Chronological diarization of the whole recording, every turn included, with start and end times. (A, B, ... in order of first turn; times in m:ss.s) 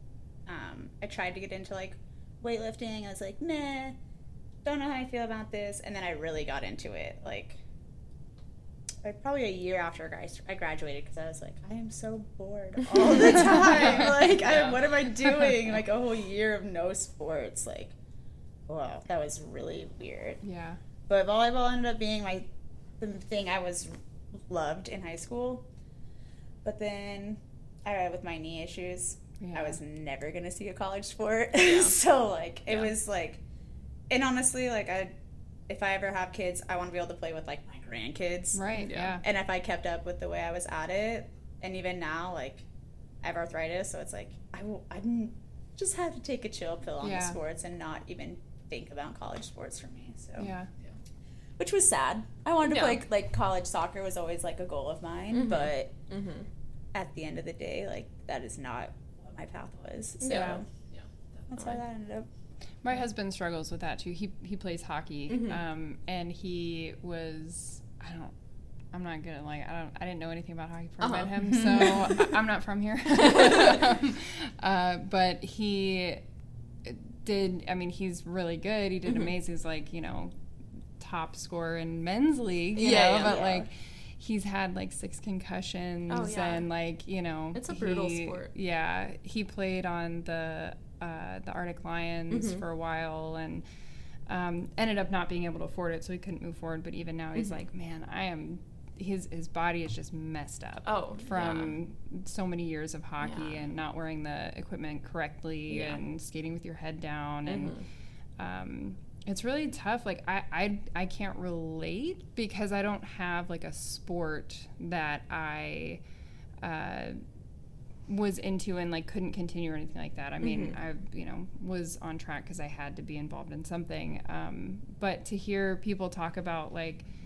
0:00.4-0:04.0 A
0:04.6-0:07.6 A
0:09.0-0:17.9 A
0:14.3-0:14.8 B
0:18.7-0:20.4 A
0:20.4-0:20.8 C
0:21.1-0:22.5 A
0:23.0-0:25.6 A
0:26.6-0:33.4 A
0:29.4-0:29.8 C
0:31.6-0:31.9 B
0:34.1-0:35.1 A
0:35.7-0:42.6 A
0:38.5-0:39.2 C
0:38.7-0:39.2 B
0:43.2-0:50.5 A
0:47.0-0:47.4 C
0:50.4-0:50.7 C
0:51.6-0:55.9 A
0:52.6-0:53.0 B
0:55.3-0:56.5 B
0:56.9-1:00.6 A
1:00.2-1:01.8 B
1:00.3-1:00.6 C
1:01.5-1:02.3 A
1:02.8-1:08.3 C
1:05.3-1:05.6 B
1:08.9-1:16.2 C
1:11.0-1:12.0 B
1:13.4-1:13.7 B
1:16.8-1:20.3 C
1:19.0-1:19.3 B
1:21.0-1:33.6 C
1:22.8-1:23.4 B
1:22.9-1:23.7 A
1:26.1-1:26.7 B
1:27.5-1:28.5 B
1:32.3-1:32.6 B
1:34.2-1:47.7 C
1:37.4-1:37.6 B
1:40.8-1:41.8 B
1:43.2-1:43.6 B
1:45.7-1:46.0 B
1:47.4-1:47.8 B
1:48.4-1:56.0 C
1:56.6-1:57.2 C
1:58.1-2:07.0 C
2:00.4-2:00.8 B